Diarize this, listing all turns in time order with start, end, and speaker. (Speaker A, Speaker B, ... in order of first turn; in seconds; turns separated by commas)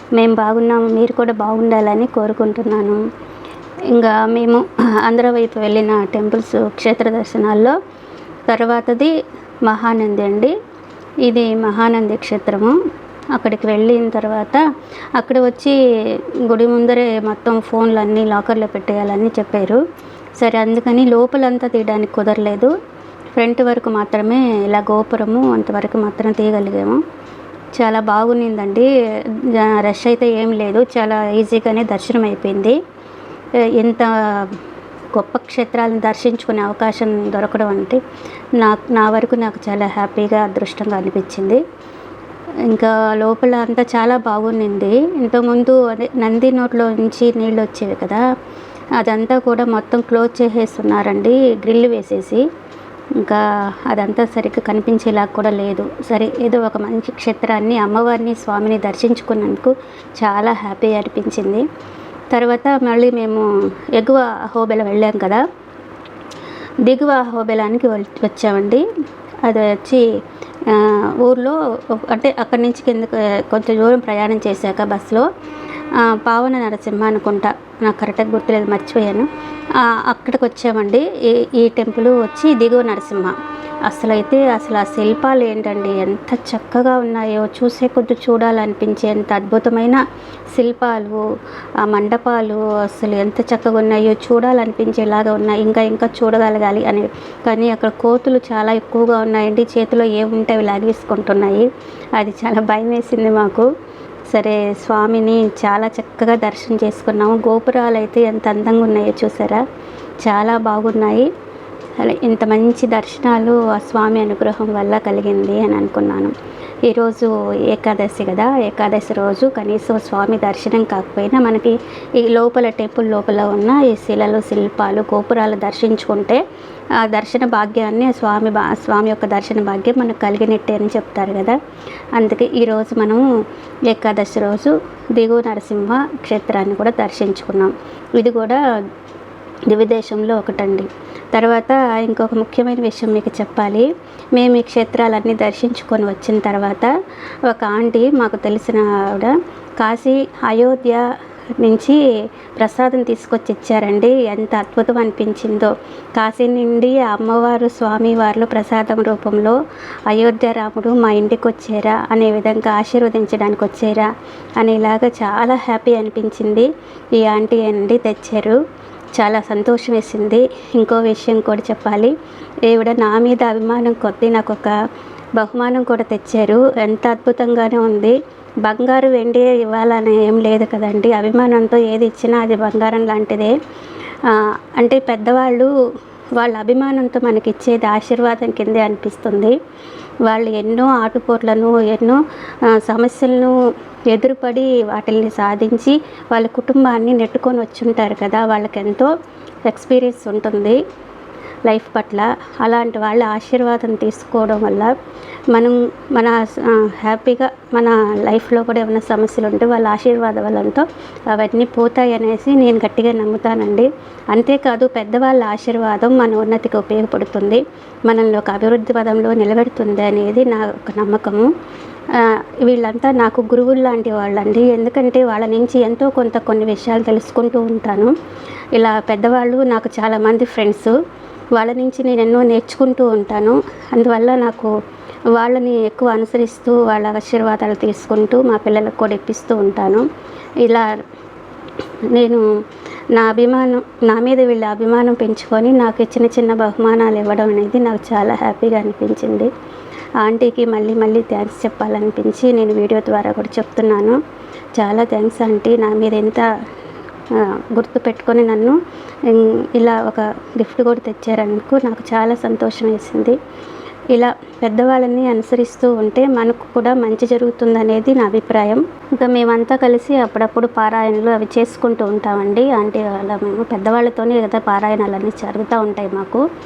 Speaker A: 0.1-3.0, Speaker A: 3.9-7.8, Speaker A: 8.5-9.1, Speaker A: 9.7-10.6, Speaker A: 11.2-12.8, Speaker A: 13.3-14.7, Speaker A: 15.2-19.8, Speaker A: 20.4-22.7, Speaker A: 23.4-27.0, Speaker A: 27.8-32.8, Speaker A: 33.7-34.6, Speaker A: 35.1-38.0, Speaker A: 38.6-41.6, Speaker A: 42.7-48.2, Speaker A: 49.0-52.5, Speaker A: 53.2-61.7, Speaker A: 62.3-65.4, Speaker A: 66.8-68.9, Speaker A: 69.4-70.1, Speaker A: 70.7-75.3, Speaker A: 75.9-90.0, Speaker A: 90.5-91.2, Speaker A: 91.8-103.7, Speaker A: 104.3-109.6, Speaker A: 110.2-111.3, Speaker A: 112.0-116.3, Speaker A: 116.9-126.4, Speaker A: 127.0-131.6, Speaker A: 132.2-133.3, Speaker A: 133.9-138.6, Speaker A: 139.7-146.9, Speaker A: 147.5-151.0, Speaker A: 151.6-152.0, Speaker A: 152.6-168.6, Speaker A: 169.2-172.2, Speaker A: 172.7-174.8, Speaker A: 175.3-183.6, Speaker A: 184.2-185.7, Speaker A: 186.4-189.6, Speaker A: 190.2-193.6, Speaker A: 194.1-199.1, Speaker A: 199.7-200.8, Speaker A: 201.7-204.9, Speaker A: 205.5-221.5, Speaker A: 222.1-228.1, Speaker A: 228.8-230.9, Speaker A: 231.6-234.7, Speaker A: 235.3-240.1, Speaker A: 240.6-240.9, Speaker A: 242.1-242.4, Speaker A: 243.1-249.5, Speaker A: 250.2-254.2, Speaker A: 254.8-256.5, Speaker A: 257.3-263.4, Speaker A: 264.1-276.5